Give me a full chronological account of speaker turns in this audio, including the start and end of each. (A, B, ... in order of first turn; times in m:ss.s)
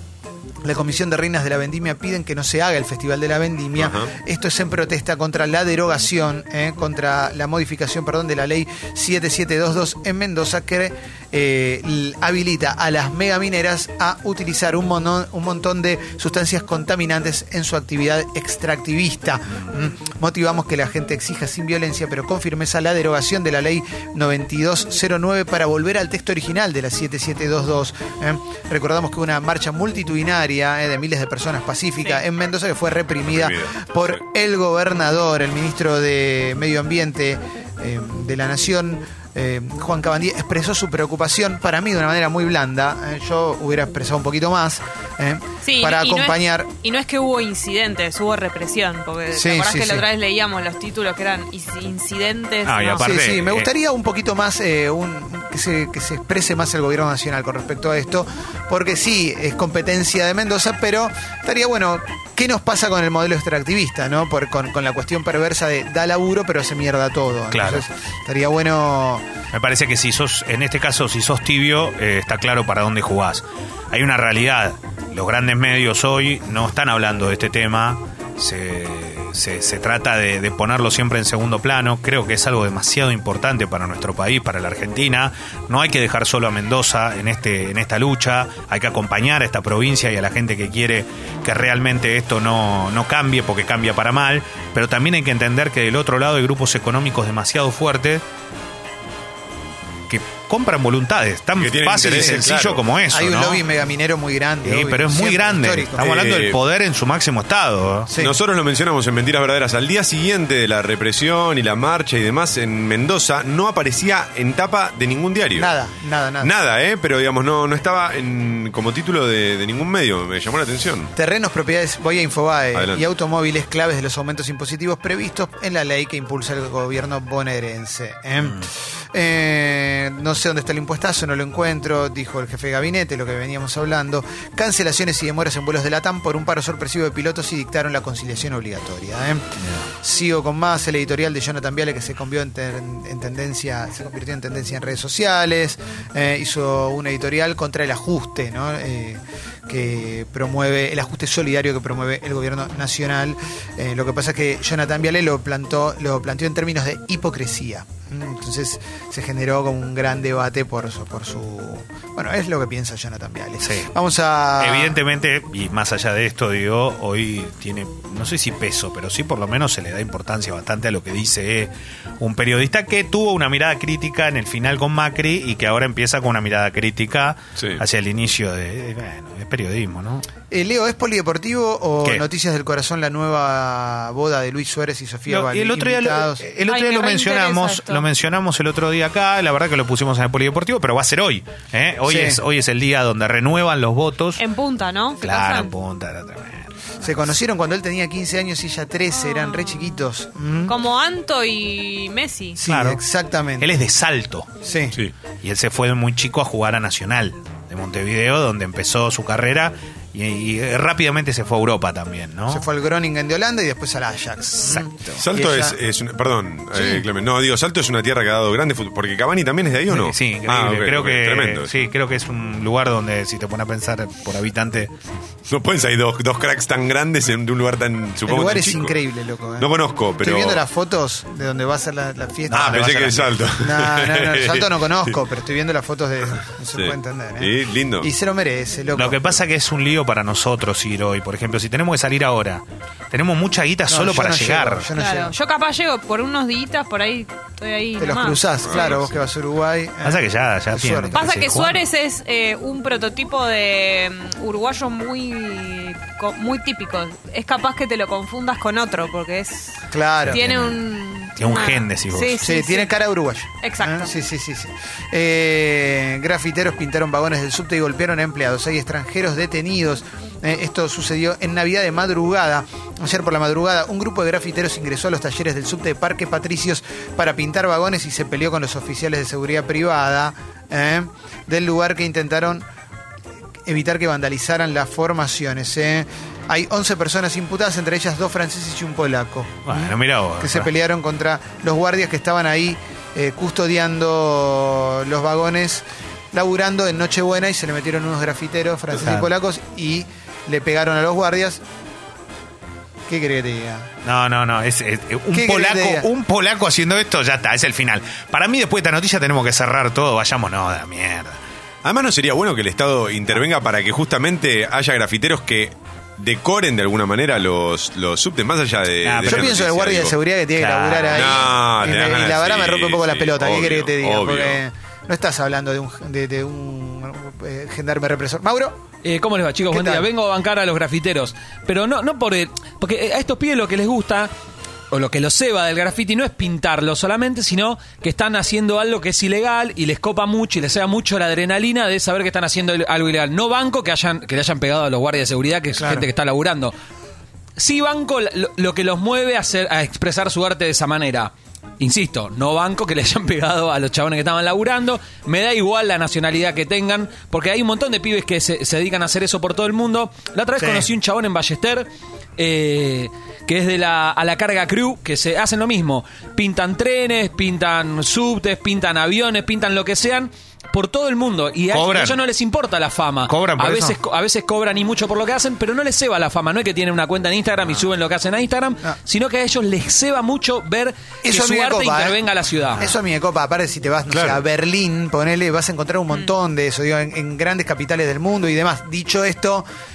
0:00.6-0:46.7 A
0:03.8-0:04.1 B
0:33.3-0:34.2 B
0:45.6-0:53.0 C
0:49.3-0:50.0 A
0:52.6-0:53.7 D
0:53.0-1:09.2 A
1:07.5-1:07.8 D
1:09.5-1:38.2 D
1:40.1-1:43.6 D
1:41.6-1:42.8 B
1:42.1-1:42.4 A
1:43.1-1:46.0 A
1:44.6-1:48.1 D
1:46.0-1:46.6 B
1:48.1-1:48.4 A
1:48.2-1:55.7 B
1:55.5-1:56.5 A
1:56.4-2:01.1 B
2:01.2-2:19.5 A
2:02.7-2:03.0 B
2:19.6-2:19.9 D
2:20.0-2:45.0 A
2:43.6-2:43.9 D
2:44.6-3:00.2 D
2:57.6-2:57.8 B
3:00.5-3:06.4 A
3:05.3-3:14.4 D
3:06.7-3:08.0 C
3:12.0-3:12.4 A
3:14.4-3:15.7 C
3:15.2-3:16.7 D
3:17.0-3:20.8 A
3:19.2-3:20.0 C
3:20.6-3:22.6 C
3:22.6-3:23.7 A
3:22.6-3:23.0 D
3:23.6-3:24.5 D
3:24.6-3:25.0 A
3:25.4-3:32.6 D
3:32.5-3:35.8 A
3:34.6-3:34.9 D
3:35.2-3:41.7 B
3:36.7-3:37.0 A
3:39.9-3:44.9 D
3:45.5-3:48.9 B
3:48.2-3:52.9 A
3:49.6-3:50.6 B
3:52.5-3:53.4 D
3:52.5-3:54.7 B
3:53.6-3:59.2 A
3:56.7-3:58.1 B
3:58.9-4:04.9 D
4:03.9-4:05.3 A
4:05.0-4:08.9 C
4:08.0-4:11.5 A
4:08.6-4:09.2 B
4:10.0-4:11.8 D
4:11.1-4:22.9 C
4:19.9-4:20.5 A
4:20.3-4:20.8 D
4:21.4-4:22.4 D
4:22.4-4:42.6 A
4:23.6-4:24.1 C
4:43.6-5:01.6 A
4:49.7-4:50.7 D
4:58.9-4:59.3 D
5:03.1-5:03.9 A
5:04.0-5:11.4 D
5:05.3-5:06.1 A
5:11.8-5:20.1 B
5:19.0-5:19.5 D
5:19.2-5:28.8 A
5:20.6-5:22.0 D
5:21.1-5:24.6 B
5:29.0-5:34.3 E
5:29.7-5:30.1 A
5:34.9-5:46.7 E
5:45.7-5:46.1 A
5:47.6-6:22.8 E
6:00.6-6:00.9 A
6:11.7-6:12.2 D
6:13.3-6:14.0 D
6:21.2-6:22.2 A
6:22.7-6:29.6 A
6:24.1-6:24.4 B